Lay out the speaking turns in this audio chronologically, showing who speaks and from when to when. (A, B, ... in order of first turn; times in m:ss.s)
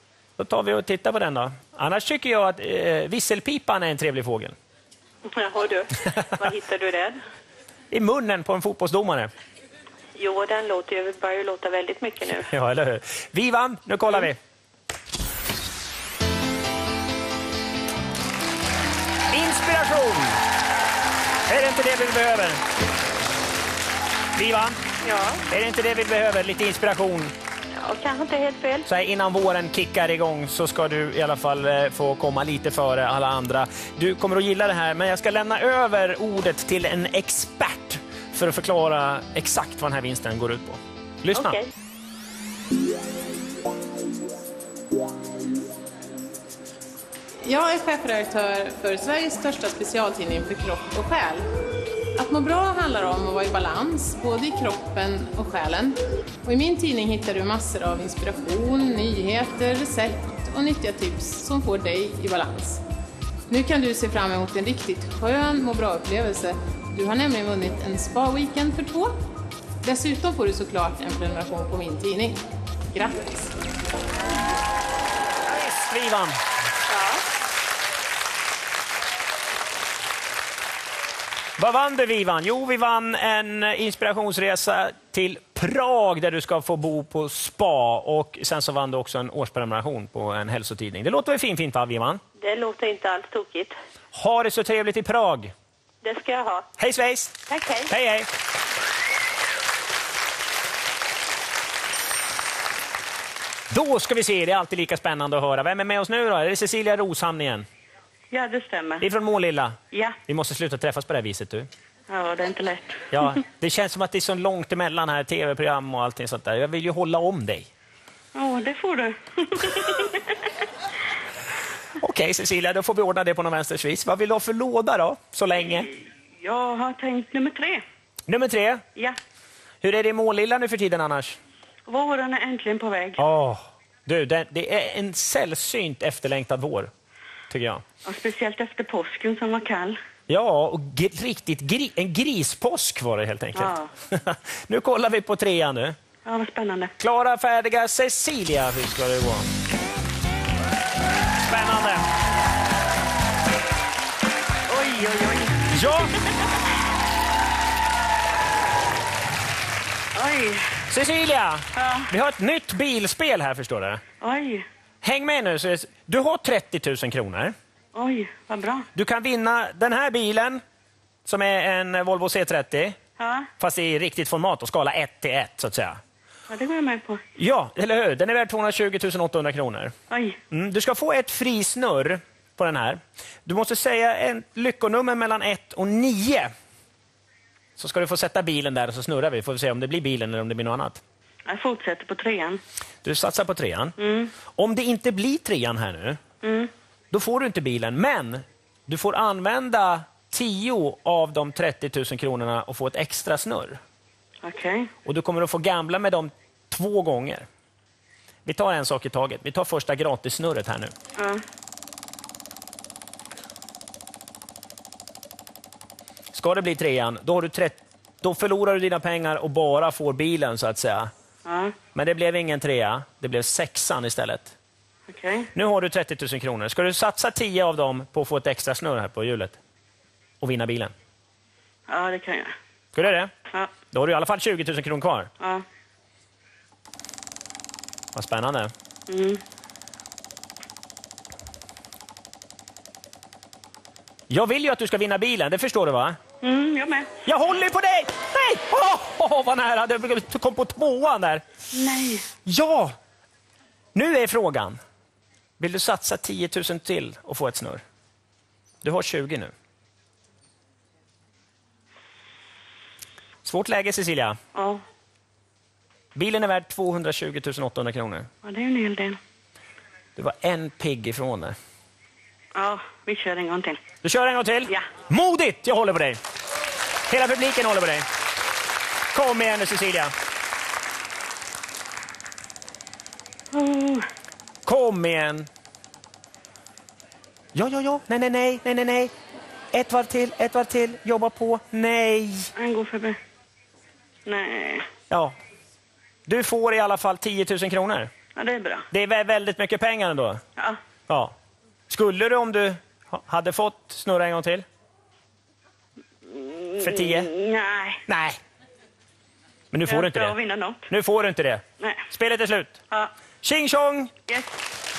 0:00.4-0:04.6 A
0:05.3-0:07.2 B
0:07.9-0:09.3 A
0:10.2-0:12.5 B
0:12.5-0:14.4 A
0:19.3-0:20.4 A
0:21.5-0:22.6 A
0:24.4-0:24.8 A
0:25.0-0:25.4 B
0:25.5-0:27.3 A
0:27.8-0:28.8 B
0:28.9-0:41.6 A
0:47.4-0:51.5 C
0:52.2-1:02.8 C
1:03.5-1:09.2 C
1:09.8-1:12.4 C
1:12.9-1:13.4 C
1:15.5-1:16.4 A
1:16.9-1:17.2 B
1:21.6-1:32.2 A
1:32.4-1:33.8 B
1:34.1-1:35.5 A
1:36.0-1:36.7 B
1:36.8-1:37.4 A
1:37.5-1:37.9 B
1:37.9-1:38.3 A
1:43.7-1:47.7 A
1:48.3-1:49.0 B
1:49.0-1:49.8 A
1:49.9-1:50.2 B
1:50.3-1:51.7 A
1:52.1-1:53.1 B
1:53.1-1:57.7 A
1:58.4-2:00.2 B
2:02.0-2:05.9 A
2:06.4-2:07.8 B
2:08.3-2:08.8 A
2:09.8-2:11.4 A
2:11.9-2:13.2 B
2:13.2-2:16.9 A
2:17.5-2:17.8 A
2:18.0-2:20.0 B
2:20.3-2:26.0 A
2:23.6-2:23.9 B
2:26.2-2:26.9 B
2:27.0-2:29.5 A
2:31.5-2:32.1 A
2:34.7-2:35.7 B
2:35.7-2:36.1 A
2:40.2-2:40.7 B
2:40.9-2:44.0 A
2:41.8-2:42.1 B
2:44.2-2:44.6 B
2:45.0-2:47.6 A
2:48.0-2:48.9 B
2:49.0-2:50.6 A
2:51.3-2:53.0 A
2:53.2-2:53.5 B
2:53.6-2:56.0 A
2:56.5-2:57.2 B
2:57.4-2:59.9 A
3:00.1-3:00.4 B
3:00.5-3:06.5 A
3:07.8-3:11.0 A
3:11.5-3:12.6 B
3:13.0-3:14.0 A
3:14.0-3:14.3 B
3:14.6-3:16.2 A
3:16.4-3:16.7 B
3:17.1-3:23.8 A
3:24.4-3:24.9 B
3:25.0-3:27.5 A
3:28.5-3:30.9 A
3:31.2-3:31.4 B
3:36.3-3:41.1 A
3:41.4-3:41.8 B
3:42.0-3:44.6 A
3:45.1-3:45.5 B
3:45.5-3:49.6 A
3:50.4-3:50.9 A
3:51.9-3:52.5 B
3:53.0-3:53.3 A
3:53.9-3:55.3 A
3:58.2-3:58.7 A
3:59.1-3:59.4 B
4:04.3-4:06.2 A
4:06.4-4:07.1 B
4:07.2-4:11.4 A
4:11.7-4:12.3 B
4:12.4-4:13.0 A
4:14.0-4:14.8 A
4:15.6-4:17.8 A
4:18.8-4:19.5 A
4:23.4-4:24.4 A
4:24.6-4:24.8 B
4:26.2-4:28.3 A
4:28.4-4:29.2 B
4:30.2-4:31.6 A
4:32.6-4:33.8 B
4:34.0-4:36.2 A
4:37.1-4:38.1 A
4:39.1-4:40.1 A
4:43.5-4:44.1 B
4:44.7-4:45.5 A
4:47.6-4:49.1 A
4:49.7-4:52.5 A
4:52.6-4:53.2 B
4:54.3-4:54.9 B
4:55.1-4:55.4 A
4:56.3-4:58.1 A
4:58.4-4:58.9 B
4:58.9-5:00.4 A
5:01.1-5:01.3 A
5:01.9-5:04.6 A
5:06.3-5:08.0 B
5:06.8-5:07.3 A
5:08.1-5:08.4 A
5:09.7-5:12.8 A
5:09.8-5:10.9 B
5:13.4-5:14.1 A